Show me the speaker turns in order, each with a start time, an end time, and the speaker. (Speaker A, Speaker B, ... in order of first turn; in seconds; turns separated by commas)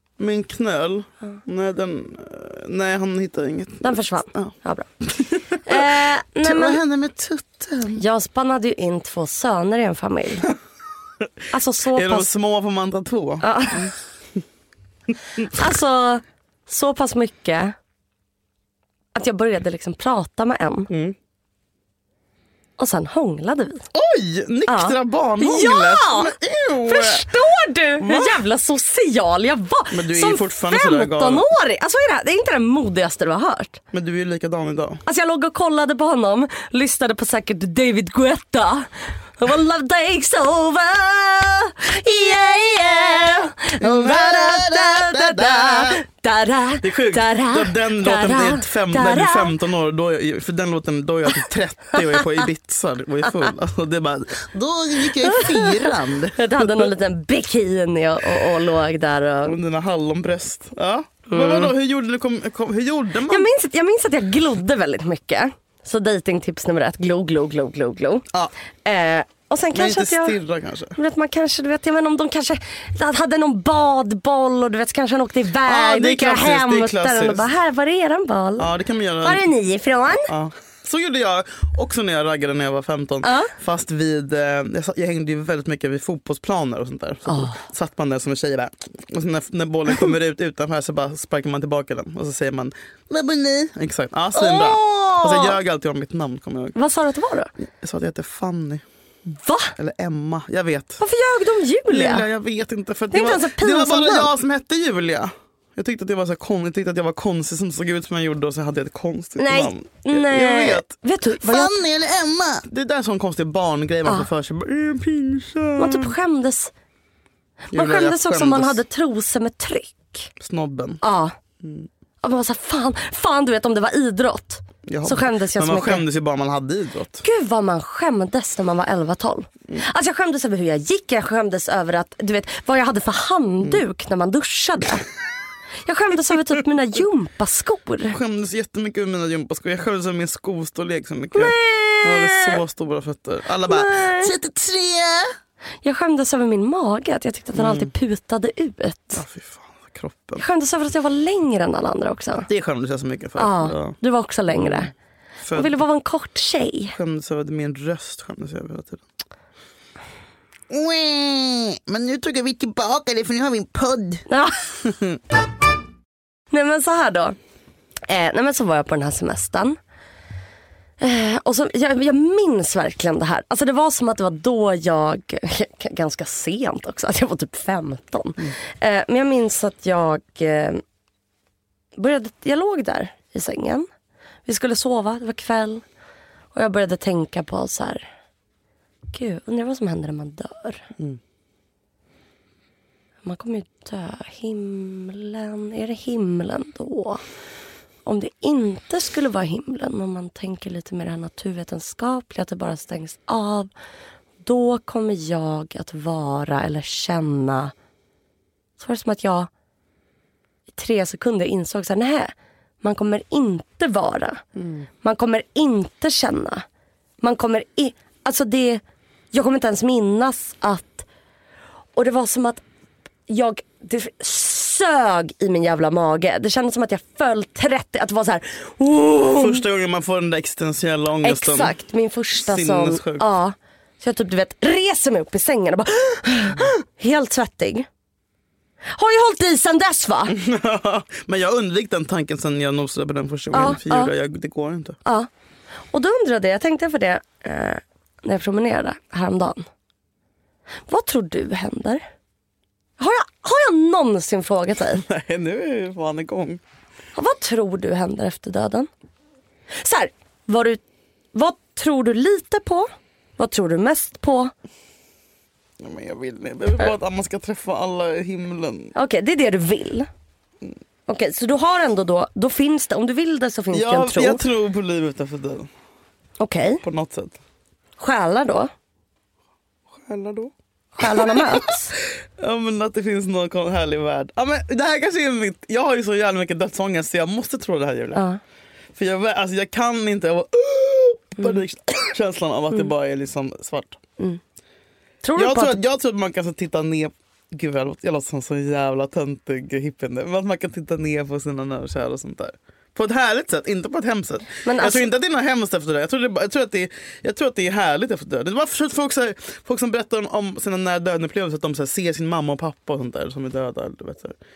Speaker A: 0.2-8.0, Speaker B: 3.8-4.9, Speaker B: 5.6-6.8, Speaker B: 8.0-10.5, Speaker B: 11.5-12.3, Speaker A: 11.9-13.9, Speaker B: 13.4-13.9, Speaker B: 15.5-17.7, Speaker B: 19.1-20.9, Speaker A: 20.9-21.1, Speaker B: 22.8-23.9, Speaker A: 23.9-27.3, Speaker B: 24.7-33.8, Speaker A: 28.0-28.4, Speaker A: 29.9-31.5, Speaker A: 33.9-35.0, Speaker B: 35.0-49.6, Speaker A: 43.8-46.0, Speaker A: 46.8-56.9, Speaker B: 55.2-59.6, Speaker A: 59.4-63.5, Speaker B: 61.3-61.7, Speaker B: 63.3-68.2, Speaker B: 68.8-70.4, Speaker A: 69.7-71.0, Speaker B: 71.0-78.7, Speaker A: 75.6-77.5, Speaker A: 78.6-79.4, Speaker B: 79.2-80.3, Speaker A: 80.3-96.8, Speaker B: 83.2-83.5, Speaker B: 87.3-87.6, Speaker B: 94.3-95.6, Speaker B: 96.7-97.5, Speaker A: 97.8-98.8, Speaker B: 99.4-99.8, Speaker A: 99.8-101.0, Speaker B: 101.0-102.2, Speaker A: 101.9-116.1, Speaker B: 103.1-104.3, Speaker B: 109.4-111.8, Speaker B: 115.8-116.7, Speaker A: 117.7-118.8, Speaker B: 117.7-120.3, Speaker A: 120.4-121.0, Speaker B: 121.0-121.3, Speaker A: 121.6-121.9, Speaker B: 122.2-126.0, Speaker A: 124.8-127.2, Speaker B: 127.2-135.1, Speaker B: 135.8-138.2, Speaker A: 138.1-145.3, Speaker B: 141.3-142.6, Speaker B: 143.7-144.3, Speaker B: 145.8-149.2, Speaker A: 147.5-147.9, Speaker A: 149.1-150.4, Speaker B: 150.4-152.5, Speaker A: 152.4-153.9, Speaker B: 153.4-154.9, Speaker A: 154.5-154.9, Speaker A: 155.4-155.8, Speaker B: 155.5-156.9, Speaker A: 156.9-159.0, Speaker A: 160.7-164.2, Speaker B: 164.3-164.7, Speaker A: 164.8-165.2, Speaker B: 166.5-167.3, Speaker B: 168.1-169.8, Speaker B: 171.0-180.8, Speaker B: 181.9-183.9, Speaker B: 184.4-185.8, Speaker B: 186.5-188.1, Speaker B: 189.1-190.9, Speaker B: 193.2-197.2, Speaker B: 198.0-203.7, Speaker B: 204.4-207.7, Speaker B: 208.8-209.5, Speaker B: 210.7-214.4, Speaker A: 214.6-214.8, Speaker B: 215.0-216.6, Speaker B: 217.2-221.1, Speaker B: 221.9-222.6, Speaker B: 223.3-229.6, Speaker A: 229.3-231.7, Speaker B: 231.2-237.9, Speaker A: 232.4-233.3, Speaker B: 238.9-240.3, Speaker A: 240.3-245.0, Speaker B: 243.5-244.1, Speaker B: 245.9-249.7, Speaker B: 250.9-252.0, Speaker B: 253.0-255.0, Speaker A: 254.9-256.6, Speaker B: 257.1-258.9, Speaker B: 259.8-260.8, Speaker B: 261.3-264.5, Speaker A: 265.8-268.9, Speaker B: 268.9-270.1, Speaker B: 271.1-274.4, Speaker A: 273.7-275.7, Speaker B: 276.4-276.8, Speaker A: 276.8-277.4, Speaker B: 278.0-278.7, Speaker A: 279.9-288.2, Speaker B: 281.0-281.9, Speaker B: 288.1-288.4, Speaker A: 288.9-294.0, Speaker B: 295.2-295.8, Speaker A: 295.4-314.4, Speaker B: 304.6-305.1